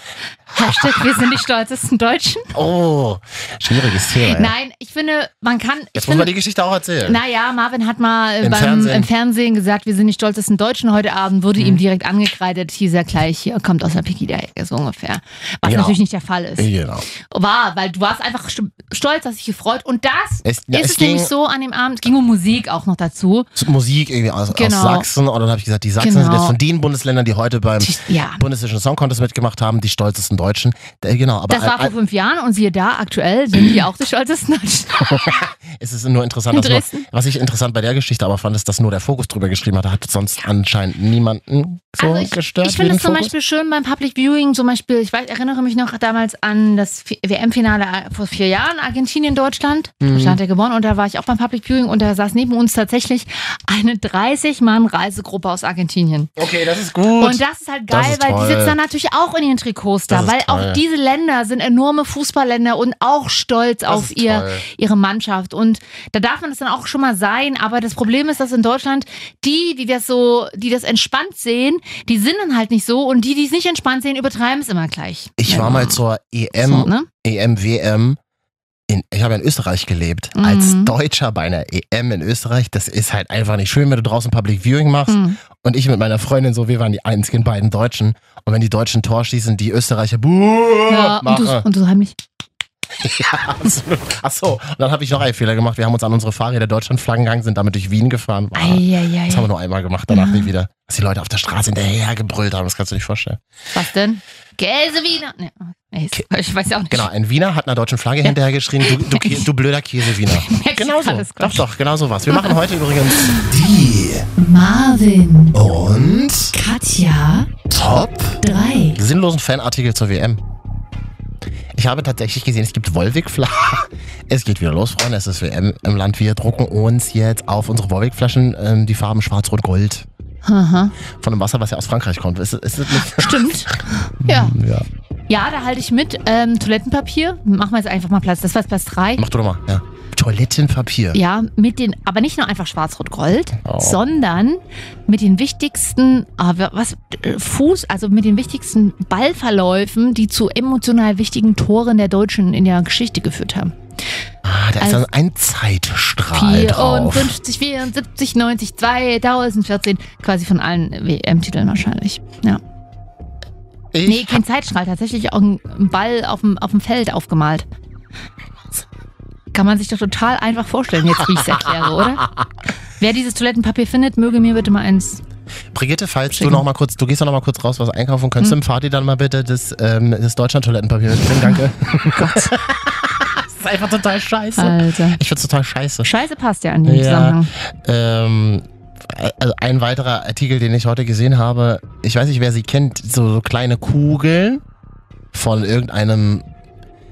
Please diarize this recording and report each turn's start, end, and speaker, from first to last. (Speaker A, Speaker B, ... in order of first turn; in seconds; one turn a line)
Speaker A: 0.5-2.5
Speaker B: 0.6-0.9
Speaker B: 2.5-4.5
Speaker A: 4.3-6.3
Speaker B: 5.9-7.2
Speaker A: 7.0-16.7
Speaker B: 8.4-9.1
Speaker B: 11.6-11.8
Speaker B: 15.6-16.0
Speaker B: 16.6-17.1
Speaker A: 17.3-23.5
Speaker B: 20.4-21.3
Speaker B: 23.6-31.9
Speaker A: 24.5-25.1
Speaker A: 26.0-26.6
Speaker A: 27.8-28.4
Speaker A: 31.5-35.4
Speaker B: 35.0-43.3
Speaker A: 36.5-37.0
Speaker A: 42.0-56.3
Speaker B: 50.0-50.4
Speaker B: 56.4-58.8
Speaker A: 57.2-76.0
Speaker B: 60.1-60.8
Speaker B: 63.9-64.6
Speaker B: 75.4-78.2
Speaker A: 76.6-77.1
Speaker B: 78.9-91.6
Speaker A: 80.3-80.9
Speaker A: 85.1-85.4
Speaker A: 90.9-92.2
Speaker B: 93.0-103.4
Speaker A: 98.5-99.5
Speaker A: 100.1-100.5
Speaker A: 103.7-107.0
Speaker B: 106.9-114.3
Speaker A: 108.2-109.4
Speaker A: 110.1-111.6
Speaker A: 112.3-112.6
Speaker A: 114.3-115.6
Speaker B: 115.5-116.5
Speaker A: 116.5-117.5
Speaker B: 117.7-118.4
Speaker A: 118.4-119.0
Speaker B: 118.9-120.4
Speaker B: 121.7-130.1
Speaker A: 130.4-130.9
Speaker B: 131.2-133.6
Speaker A: 132.9-134.5
Speaker B: 134.2-134.9
Speaker A: 135.3-139.2
Speaker B: 139.2-141.2
Speaker A: 141.1-153.7
Speaker B: 143.6-144.0
Speaker B: 154.4-157.3
Speaker A: 154.8-155.0
Speaker A: 156.3-162.6
Speaker B: 163.9-164.4
Speaker A: 164.0-167.7
Speaker A: 169.5-172.2
Speaker B: 171.6-172.0
Speaker A: 173.0-175.2
Speaker B: 175.7-186.1
Speaker A: 176.3-176.6
Speaker A: 182.1-182.5
Speaker A: 184.6-185.2
Speaker A: 186.0-187.5
Speaker B: 186.8-194.6
Speaker B: 195.3-196.4